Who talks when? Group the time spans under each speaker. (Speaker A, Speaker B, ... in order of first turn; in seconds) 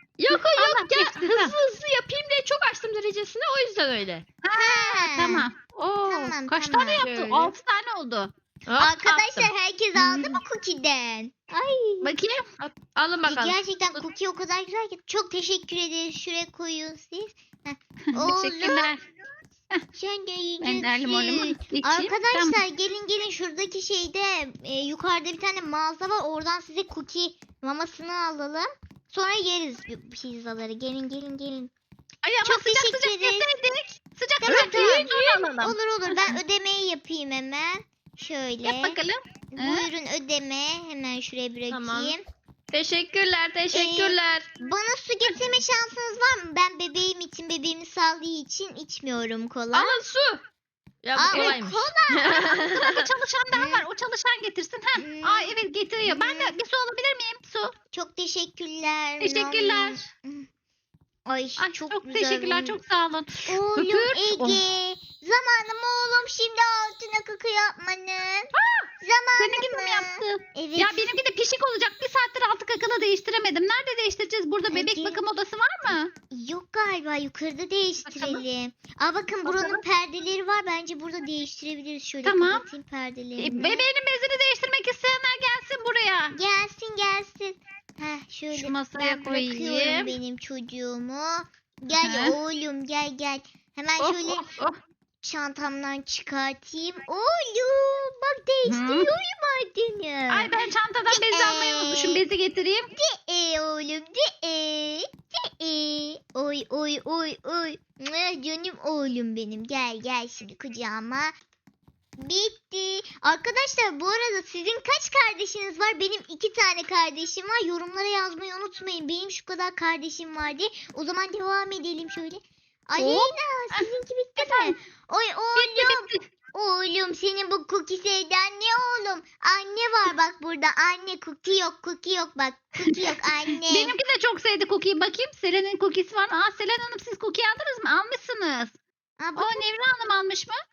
Speaker A: 0.2-4.3, 7.0-7.5, 8.7-10.4, 12.6-14.1, 34.5-35.5, 41.7-42.1, 42.7-44.5, 49.7-50.4, 51.0-53.1, 124.4-124.7
Speaker B: 0.3-1.6, 4.4-8.3, 12.0-12.5, 18.1-19.0, 20.6-22.6, 32.2-36.4, 38.6-39.9, 51.3-51.6, 52.7-57.8, 59.2-60.0, 61.6-64.6, 69.4-76.1, 78.1-78.4, 79.5-79.8, 82.2-82.6, 83.4-86.4, 88.5-90.2, 92.0-92.3, 94.0-94.8, 98.7-99.1, 100.3-102.9, 125.6-126.3, 133.7-138.8, 139.4-140.6
Speaker C: 4.5-5.5, 6.1-7.0, 8.8-12.2, 13.3-18.9, 19.9-31.7, 32.4-33.6, 34.4-39.0, 39.5-42.2, 43.7-50.0, 51.1-52.5, 53.5-53.8, 55.0-56.5, 57.9-60.5, 61.3-62.8, 63.5-71.1, 74.7-75.2, 76.3-83.9, 86.3-94.5, 95.2-100.5, 101.1-102.2, 102.9-111.3, 112.2-134.0, 139.2-139.7